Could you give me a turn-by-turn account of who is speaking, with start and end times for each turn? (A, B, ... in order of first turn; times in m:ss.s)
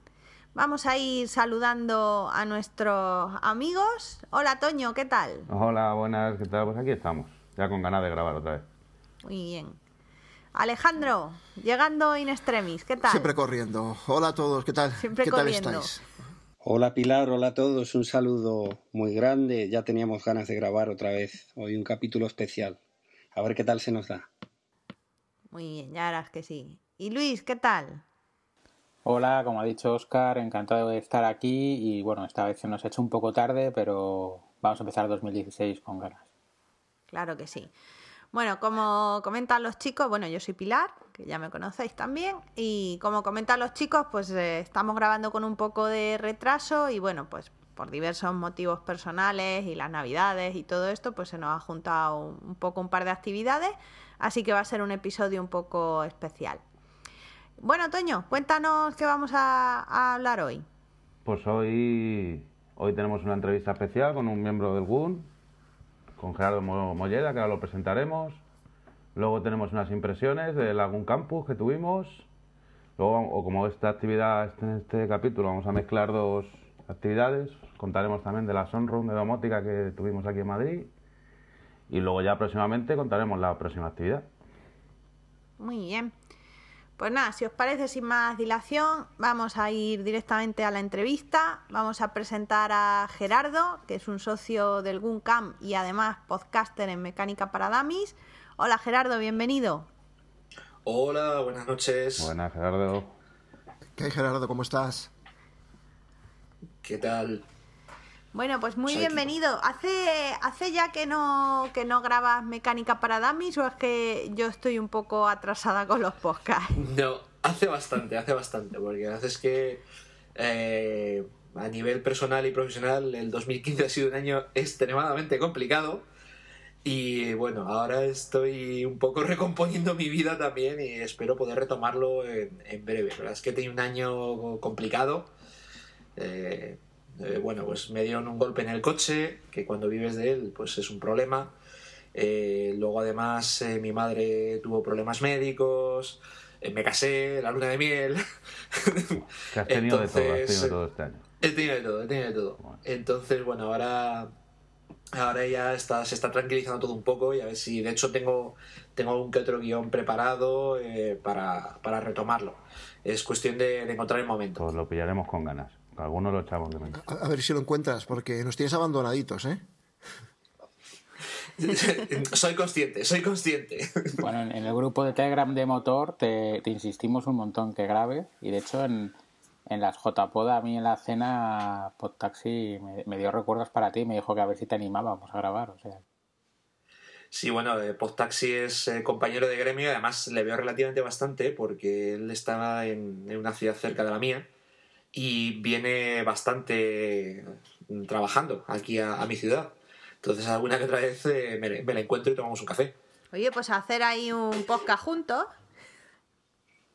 0:00.5-0:05.5 A
0:05.5-0:08.6 B
0:09.2-0:09.8 A
0:10.5-0:13.3 A
0:13.0-0:16.0 C
0:15.0-0:15.9 A
0:16.6-0:22.8 D
0:23.3-0:24.3 D
0:25.5-0:28.0 A
0:29.0-0:36.2 E
0:37.1-0:37.7 A
0:38.3-0:56.6 A
0:57.6-1:00.6 A
1:01.2-1:05.3 B
1:06.2-1:08.4 B
1:09.1-1:12.3 B
1:13.0-1:20.9 B
1:21.9-1:24.3 B
1:25.6-1:26.1 A
1:27.0-1:39.9 A
1:40.8-1:42.3 F
1:42.2-1:43.1 B
1:44.0-1:45.1 C
1:46.8-1:47.4 F
1:48.3-1:56.8 A
1:48.9-1:49.2 F
1:56.8-1:59.8 F
2:00.4-2:06.0 F
2:06.8-2:15.3 F
2:16.2-2:21.5 F
2:22.1-2:30.8 F
2:29.5-2:31.2 B
2:31.4-2:34.3 F
2:35.1-2:44.6 F
2:44.6-2:47.0 B
2:46.9-2:49.6 C
2:51.6-2:54.2 F
2:54.2-2:59.2 E
2:59.7-3:06.0 E
3:07.3-3:14.5 F
3:15.1-3:22.9 F
3:23.3-3:25.5 A